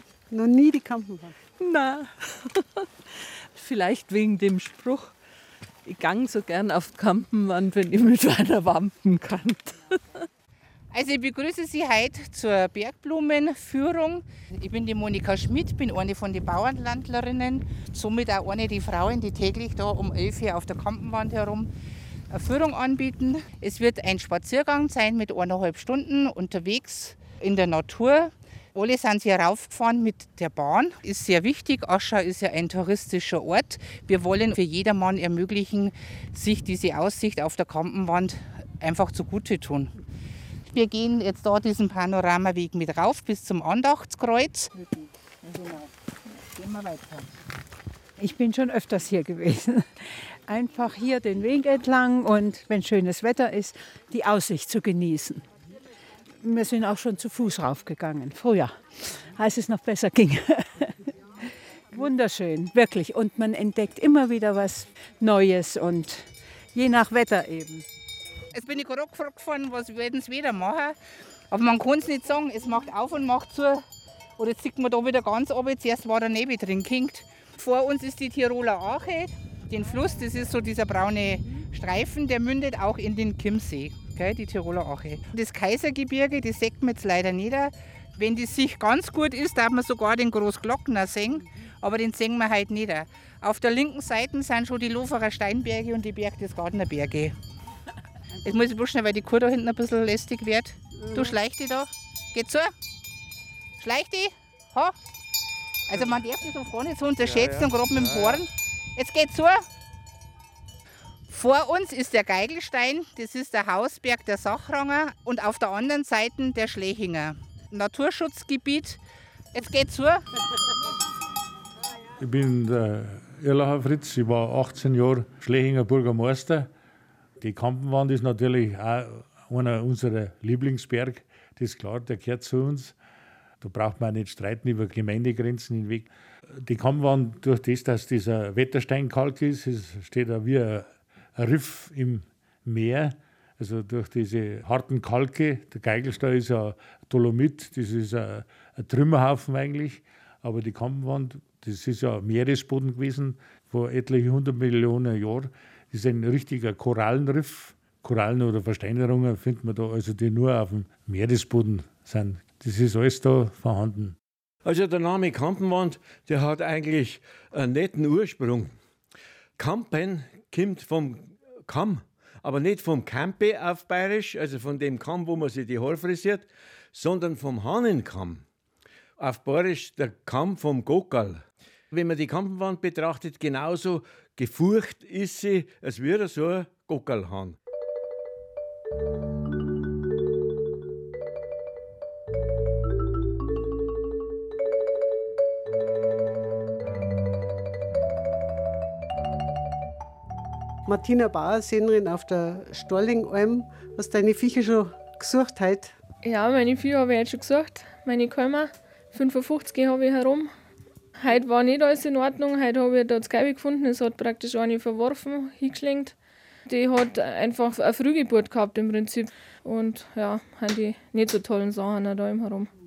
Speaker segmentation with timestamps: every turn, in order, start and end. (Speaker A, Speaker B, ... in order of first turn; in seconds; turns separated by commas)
Speaker A: 0.3-1.4, Speaker B: 1.6-2.8, Speaker B: 3.5-5.1, Speaker B: 5.8-10.2, Speaker C: 10.9-21.7, Speaker C: 22.3-39.9, Speaker C: 40.7-44.7, Speaker D: 48.2-55.4, Speaker D: 56.4-67.8, Speaker C: 68.5-71.0, Speaker C: 71.5-73.8, Speaker C: 74.4-97.3, Speaker C: 98.4-102.7, Speaker C: 103.8-104.9, Speaker C: 105.9-109.6, Speaker C: 111.3-119.0, Speaker C: 119.5-120.2, Speaker E: 122.2-126.7, Speaker E: 127.4-132.9, Speaker E: 133.6-136.1, Speaker E: 136.6-164.1, Speaker F: 164.6-168.7, Speaker F: 169.6-178.4, Speaker F: 179.2-187.6, Speaker A: 200.9-205.9, Speaker G: 206.2-210.5, Speaker G: 211.2-216.1, Speaker G: 216.7-222.7